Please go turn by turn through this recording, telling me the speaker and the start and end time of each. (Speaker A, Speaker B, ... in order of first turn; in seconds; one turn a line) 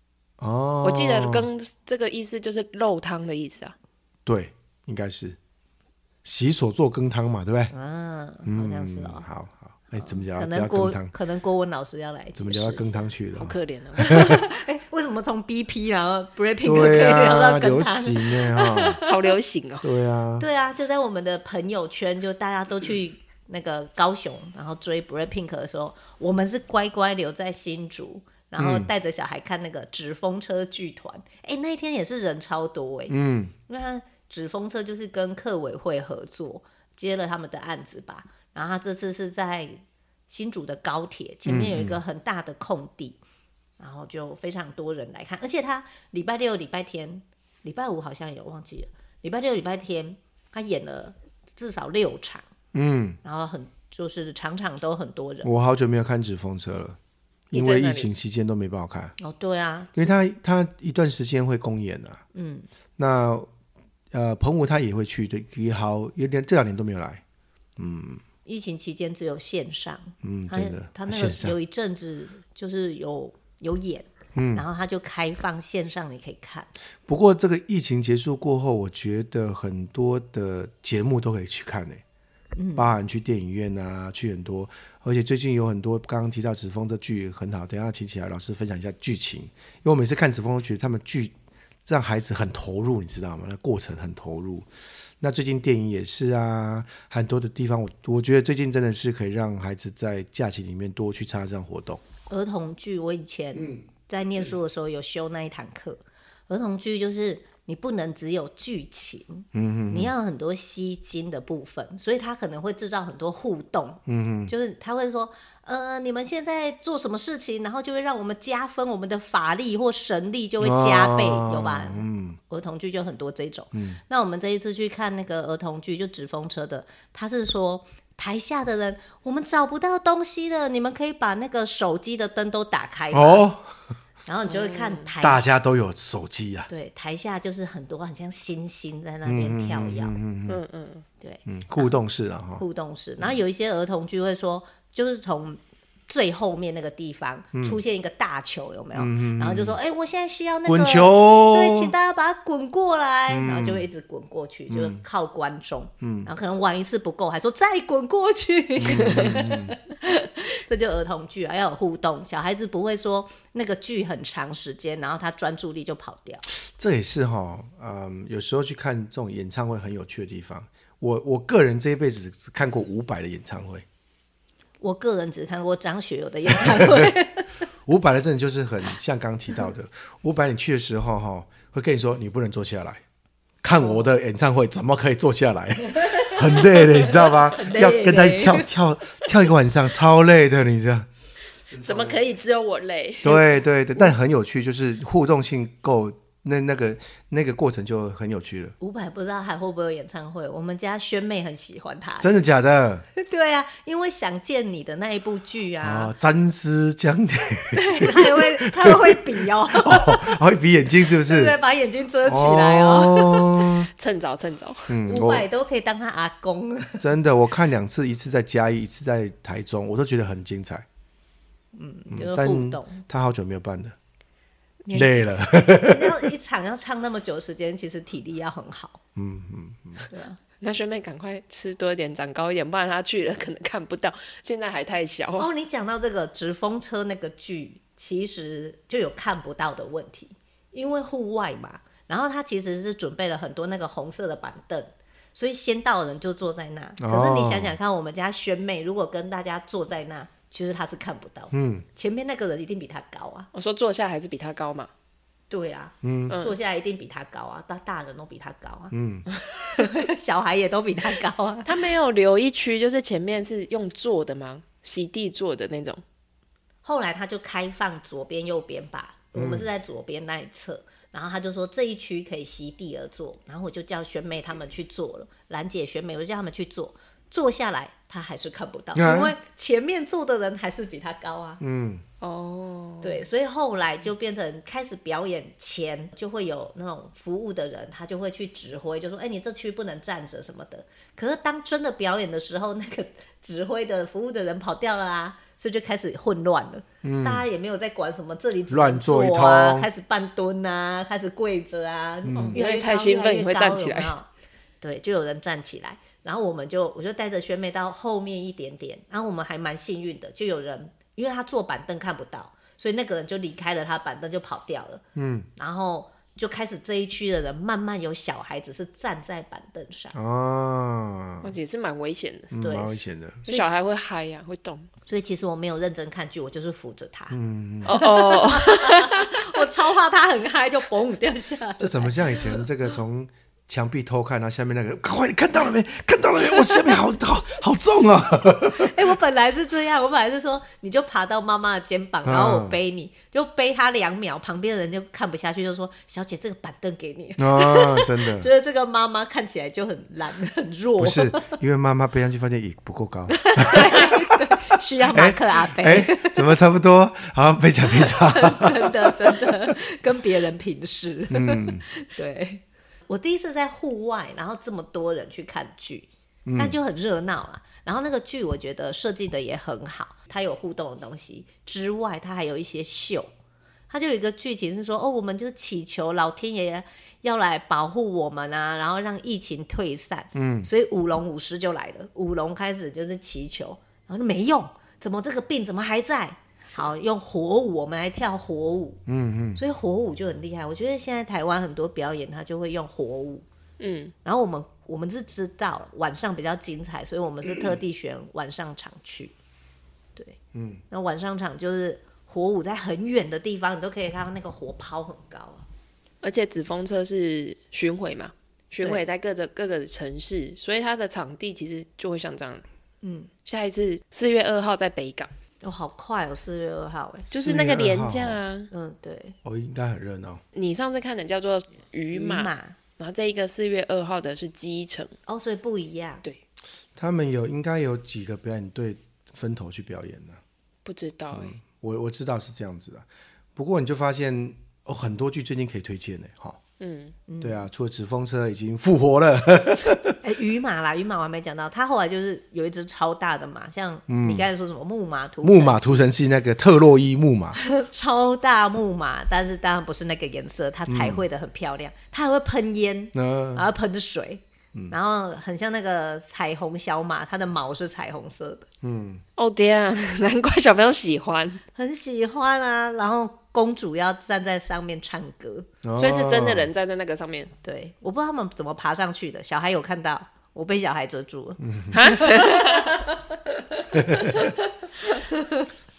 Speaker A: 0.4-1.5
Speaker B: 0.8-3.7
Speaker A: 4.2-5.4
Speaker A: 6.2-7.7
Speaker C: 7.7-9.2
Speaker A: 8.4-11.1
Speaker C: 10.0-12.9
Speaker A: 12.3-14.4
Speaker B: 13.3-14.3
Speaker C: 14.0-19.3
Speaker A: 16.6-19.0
Speaker B: 19.1-19.9
Speaker A: 19.8-20.4
Speaker C: 20.4-43.2
Speaker A: 28.6-28.9
Speaker A: 33.1-33.5
Speaker A: 41.4-42.0
Speaker C: 43.8-52.5
Speaker A: 52.7-53.2
Speaker C: 53.2-55.5
Speaker A: 55.4-57.0
Speaker A: 57.5-59.1
Speaker B: 57.5-58.1
Speaker C: 59.2-60.1
Speaker A: 59.9-62.2
Speaker C: 62.3-62.7
Speaker A: 63.0-63.5
Speaker A: 64.1-67.2
Speaker A: 67.8-68.2
Speaker C: 68.4-76.7
Speaker A: 70.2-71.5
Speaker A: 74.3-74.6
Speaker A: 77.1-82.0
Speaker C: 82.5-82.9
Speaker A: 82.7-94.7
Speaker A: 95.2-102.0
Speaker C: 102.3-133.5
Speaker A: 103.5-103.8
Speaker A: 109.5-110.1
Speaker A: 114.0-114.5
Speaker A: 120.6-122.4
Speaker A: 123.7-124.0
Speaker A: 133.1-133.7
Speaker C: 134.2-135.5
Speaker B: 134.5-135.1
Speaker A: 135.2-136.7
Speaker C: 136.7-140.1
Speaker A: 139.2-140.6
Speaker B: 140.5-141.1
Speaker C: 141.2-141.9
Speaker A: 141.5-142.6
Speaker C: 142.6-166.4
Speaker A: 147.5-147.8
Speaker A: 148.9-149.8
Speaker A: 150.7-151.9
Speaker A: 153.3-153.9
Speaker A: 154.7-155.0
Speaker A: 156.0-156.3
Speaker A: 158.8-159.8
Speaker A: 166.8-173.8
Speaker C: 174.8-177.6
Speaker A: 176.5-177.1
Speaker A: 177.8-183.0
Speaker A: 183.6-191.1
Speaker C: 183.8-184.1
Speaker C: 186.0-188.7
Speaker A: 191.7-192.2
Speaker B: 191.8-193.5
Speaker A: 193.2-198.7
Speaker C: 198.8-202.3
Speaker A: 202.2-203.0
Speaker C: 203.1-206.1
Speaker A: 205.8-211.6
Speaker C: 207.7-210.4
Speaker C: 211.0-213.6
Speaker A: 212.2-213.9
Speaker B: 213.9-215.0
Speaker A: 214.9-215.5
Speaker C: 215.0-217.1
Speaker A: 217.0-220.8
Speaker C: 221.7-223.0
Speaker A: 222.1-223.9
Speaker C: 224.8-229.0
Speaker A: 224.9-226.3
Speaker A: 229.2-230.1
Speaker C: 230.1-230.4
Speaker B: 230.6-235.5
Speaker C: 235.4-253.5
Speaker A: 247.0-247.8
Speaker A: 251.5-251.8
Speaker B: 253.5-254.9
Speaker C: 255.5-258.9
Speaker A: 256.0-256.4
Speaker B: 256.3-256.6
Speaker A: 258.9-259.2
Speaker C: 259.7-261.7
Speaker B: 261.6-266.0
Speaker C: 266.8-281.6
Speaker A: 269.3-269.7
Speaker A: 278.9-279.3
Speaker A: 281.6-282.0
Speaker B: 282.2-283.2
Speaker C: 283.0-304.3
Speaker A: 297.0-297.4
Speaker A: 298.7-299.9
Speaker A: 302.2-302.6
Speaker B: 302.5-304.1
Speaker C: 304.8-315.0
Speaker A: 315.1-315.5
Speaker C: 315.6-320.1
Speaker A: 320.1-321.5
Speaker B: 321.4-322.5
Speaker A: 322.5-323.4
Speaker C: 322.6-323.7
Speaker B: 323.4-324.9
Speaker C: 325.1-332.5
Speaker A: 327.3-327.9
Speaker B: 327.9-329.6
Speaker A: 331.8-338.9
Speaker C: 338.7-351.6
Speaker A: 342.2-342.8
Speaker A: 347.4-348.5
Speaker A: 351.0-359.6
Speaker C: 353.3-356.5
Speaker C: 358.0-373.3
Speaker A: 361.3-361.8
Speaker A: 366.4-366.8
Speaker C: 373.9-389.0
Speaker A: 380.3-380.7
Speaker A: 389.1-389.6
Speaker C: 389.6-393.4
Speaker B: 393.8-394.1
Speaker C: 394.2-399.3
Speaker A: 400.5-400.8
Speaker C: 400.9-405.6
Speaker B: 406.2-412.6
Speaker C: 413.0-413.3
Speaker B: 413.4-415.3
Speaker C: 415.6-417.3
Speaker B: 417.3-418.7
Speaker A: 417.3-418.4
Speaker C: 418.7-419.4
Speaker A: 419.4-420.4
Speaker B: 420.5-425.1
Speaker C: 422.1-422.8
Speaker C: 425.3-426.2
Speaker A: 426.9-430.4
Speaker B: 430.8-431.6
Speaker A: 431.3-436.6
Speaker B: 436.8-437.1
Speaker C: 437.3-437.6
Speaker A: 437.4-440.2
Speaker C: 440.2-446.1
Speaker A: 444.1-444.5
Speaker A: 445.4-447.6
Speaker C: 447.6-458.7
Speaker A: 450.9-451.2
Speaker A: 453.1-453.7
Speaker A: 458.8-459.2
Speaker B: 459.4-461.6
Speaker C: 461.7-465.7
Speaker A: 465.8-466.7
Speaker B: 466.0-467.5
Speaker C: 467.6-475.7
Speaker A: 471.6-472.0
Speaker B: 471.9-472.9
Speaker A: 473.9-474.5